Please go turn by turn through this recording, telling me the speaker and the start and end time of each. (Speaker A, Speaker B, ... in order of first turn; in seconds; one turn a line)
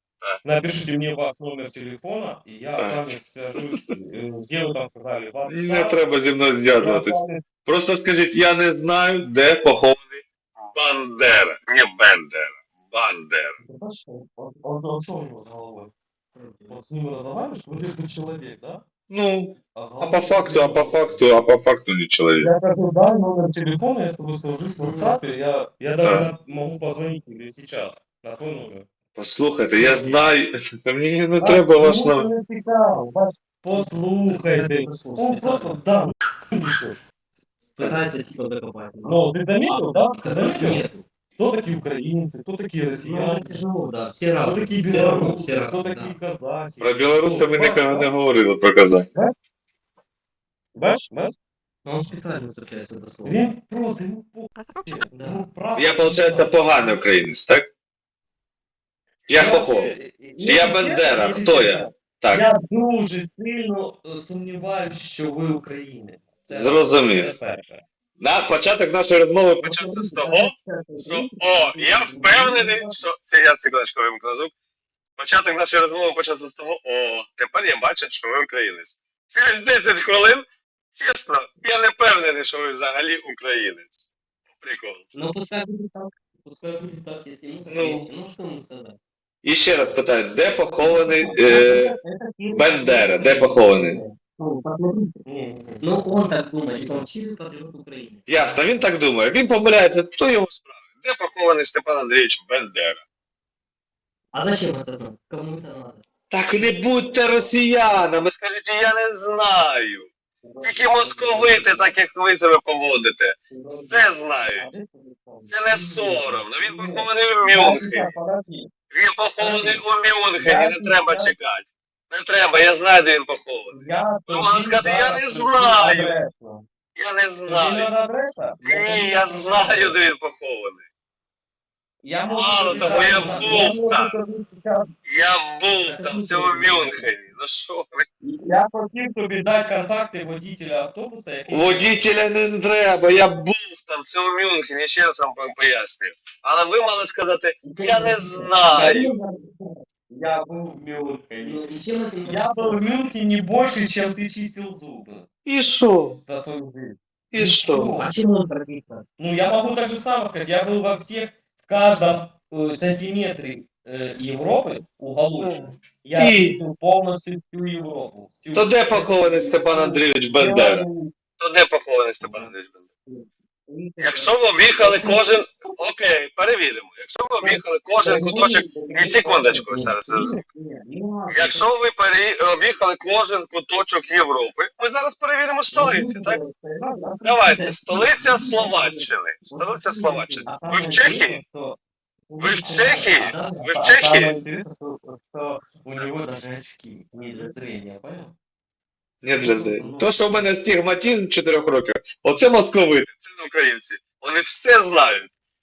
Speaker A: 0.4-6.0
Speaker B: 2.8-3.9
Speaker B: 5.5-13.6
Speaker A: 6.7-7.5
Speaker A: 13.6-15.9
Speaker C: 16.4-16.7
Speaker A: 16.7-18.8
Speaker B: 19.1-22.5
Speaker A: 19.8-21.2
Speaker A: 22.4-28.9
Speaker C: 24.8-25.2
Speaker B: 26.0-26.3
Speaker B: 29.2-32.3
Speaker A: 29.7-30.2
Speaker A: 31.4-37.0
Speaker C: 33.7-35.8
Speaker C: 37.8-41.0
Speaker A: 39.0-40.8
Speaker A: 41.4-43.6
Speaker C: 43.0-46.1
Speaker A: 44.4-48.1
Speaker B: 46.8-49.1
Speaker A: 50.8-51.3
Speaker C: 51.9-53.5
Speaker A: 53.2-56.6
Speaker C: 55.1-55.4
Speaker B: 55.8-57.7
Speaker B: 59.3-62.5
Speaker A: 59.3-67.8
Speaker B: 66.5-67.3
Speaker B: 68.2-74.5
Speaker A: 69.6-73.0
Speaker B: 75.2-80.5
Speaker B: 81.0-84.1
Speaker B: 84.6-85.0
Speaker C: 85.1-89.0
Speaker B: 87.7-88.1
Speaker B: 89.4-92.0
Speaker C: 89.9-91.7
Speaker A: 90.8-92.6
Speaker C: 92.5-95.2
Speaker B: 92.5-94.0
Speaker A: 95.2-96.0
Speaker C: 95.8-98.4
Speaker B: 98.3-103.0
Speaker C: 104.3-106.0
Speaker B: 106.3-110.1
Speaker A: 110.4-111.9
Speaker B: 110.6-113.4
Speaker A: 113.5-118.7
Speaker B: 113.9-114.7
Speaker B: 115.5-118.1
Speaker B: 118.9-126.2
Speaker A: 119.4-119.8
Speaker A: 120.3-121.3
Speaker A: 123.7-126.6
Speaker B: 127.0-127.9
Speaker A: 127.5-130.0
Speaker B: 128.6-130.8
Speaker A: 132.0-134.9
Speaker B: 132.2-134.2
Speaker C: 132.9-133.6
Speaker B: 135.1-138.1
Speaker A: 135.9-136.3
Speaker C: 136.0-137.1
Speaker A: 138.2-141.9
Speaker B: 141.5-149.1
Speaker A: 147.6-151.6
Speaker C: 151.4-152.8
Speaker A: 152.2-155.3
Speaker B: 155.4-156.2
Speaker A: 156.2-158.1
Speaker B: 157.3-157.9
Speaker C: 158.0-159.0
Speaker A: 159.2-171.1
Speaker B: 165.4-166.6
Speaker B: 168.5-170.9
Speaker B: 171.4-172.9
Speaker A: 172.2-172.5
Speaker A: 173.7-174.0
Speaker C: 173.9-175.2
Speaker B: 174.0-180.4
Speaker A: 174.8-175.2
Speaker A: 177.4-181.6
Speaker B: 181.3-186.4
Speaker A: 185.7-188.7
Speaker B: 187.2-191.4
Speaker C: 187.8-189.1
Speaker A: 189.5-191.8
Speaker C: 190.0-190.5
Speaker A: 192.3-198.3
Speaker B: 192.4-194.3
Speaker C: 192.6-193.5
Speaker B: 199.2-205.3
Speaker A: 199.4-200.5